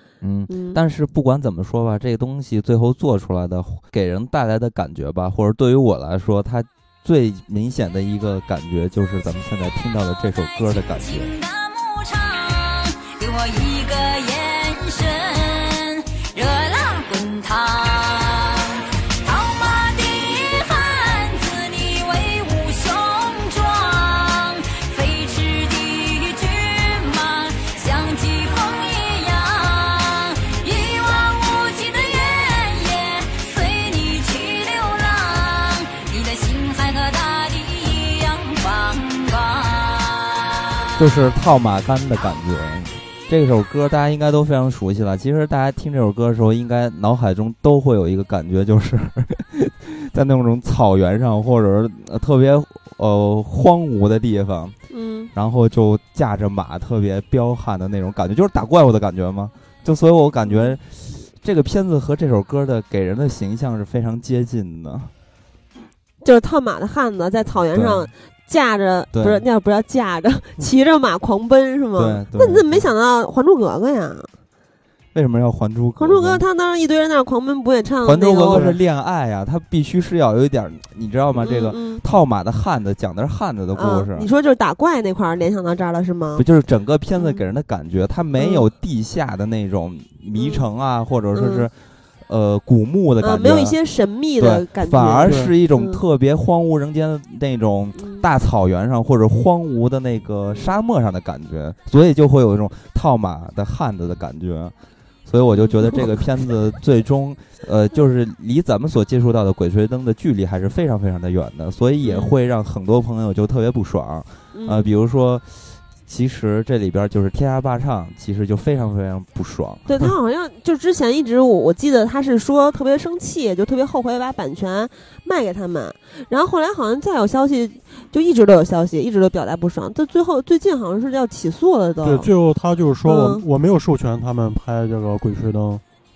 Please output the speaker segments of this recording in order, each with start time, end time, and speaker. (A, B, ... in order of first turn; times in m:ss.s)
0:00.2-0:11.3 A
0:00.5-0:00.8 B
0:10.1-0:40.8 C
0:41.0-0:54.8 A
0:54.9-0:55.3 B
0:55.3-1:05.1 A
1:00.4-1:00.8 B
1:06.2-1:14.3 B
1:07.7-1:08.1 A
1:09.1-1:09.4 A
1:12.0-1:12.9 A
1:15.1-1:16.4 A
1:16.0-1:18.7 B
1:18.0-1:24.3 A
1:18.5-1:18.8 D
1:21.3-1:22.0 B
1:23.7-1:26.4 B
1:26.4-1:31.7 A
1:27.1-1:27.4 B
1:28.3-1:28.6 B
1:30.3-1:30.6 B
1:31.3-1:31.6 B
1:32.3-1:33.8 A
1:33.2-1:36.0 B
1:34.4-1:44.7 A
1:35.2-1:35.5 D
1:38.0-1:38.2 B
1:45.2-2:00.1 A
1:45.5-1:46.0 B
1:52.0-1:52.3 B
1:54.5-1:54.9 B
1:59.8-2:12.3 B
2:12.0-2:15.8 D
2:13.0-2:13.4 B